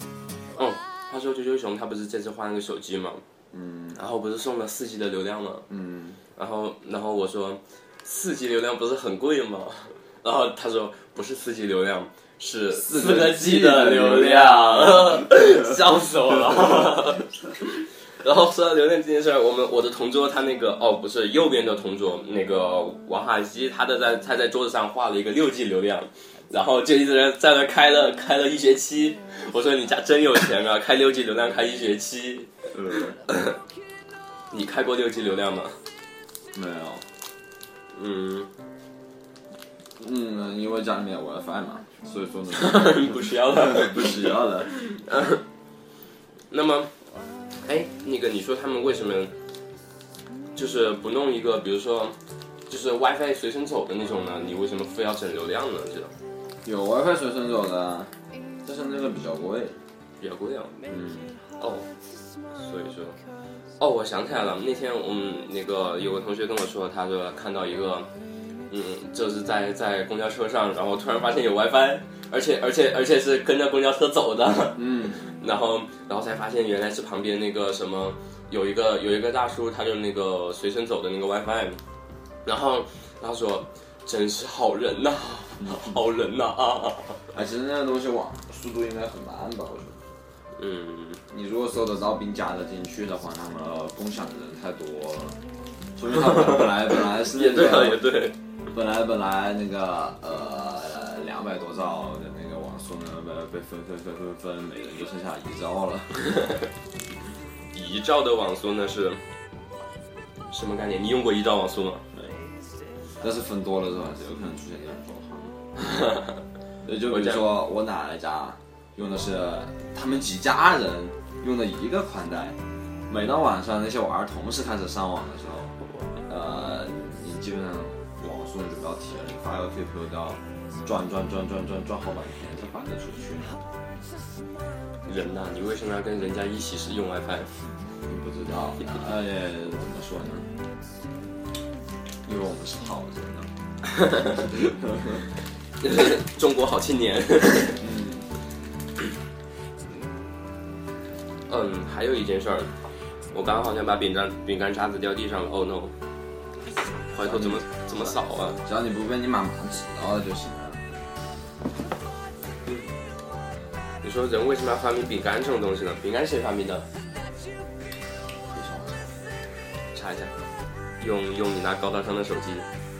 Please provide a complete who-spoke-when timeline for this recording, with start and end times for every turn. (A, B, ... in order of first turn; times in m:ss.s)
0:00.6-0:03.2 A
0:03.5-0:04.0 B
0:04.0-0:05.7 A
0:05.7-0:06.2 B
0:06.4-0:32.6 A
0:12.8-0:15.8 B
0:32.7-0:33.2 B
0:33.3-0:33.6 A
0:34.5-0:35.8 A
0:36.5-0:37.0 B
0:37.9-0:38.5 A
0:40.0-0:44.7 B
0:42.5-0:45.4 A
0:46.5-0:46.9 A
0:47.6-0:49.3 A
0:50.6-0:52.2 A
0:52.7-0:56.1 A
0:56.6-0:58.1 B
0:58.6-0:59.8 B
1:00.2-1:00.8 A
1:00.9-1:01.3 B
1:01.6-1:01.9 A
1:02.5-1:03.2 A
1:03.8-1:08.1 A
1:08.7-1:21.8 A
1:14.8-1:15.2 B
1:22.4-1:27.2 A
1:25.7-1:25.9 B
1:27.3-1:30.0 B
1:30.6-1:31.2 A
1:31.3-1:35.4 B
1:36.0-1:38.0 B
1:36.2-1:38.4 A
1:38.7-1:46.3 B
1:47.7-1:49.2 A
1:50.5-1:52.0 A
1:53.2-1:55.6 B
1:55.8-1:56.4 A
1:56.8-2:05.7 B
1:57.1-1:57.5 A
2:06.3-2:13.6 B
2:15.0-2:17.5 A
2:18.1-2:20.5 B
2:22.2-2:23.5 B
2:24.4-2:25.2 B
2:25.8-2:27.8 A
2:27.8-2:28.3 B
2:31.5-2:32.7 A
2:33.3-2:35.9 A
2:37.1-2:38.6 A
2:37.2-2:40.8 B
2:42.7-2:42.9 A
2:44.0-2:46.9 A
2:48.5-2:49.1 B
2:49.9-2:50.3 A
2:51.0-2:52.7 A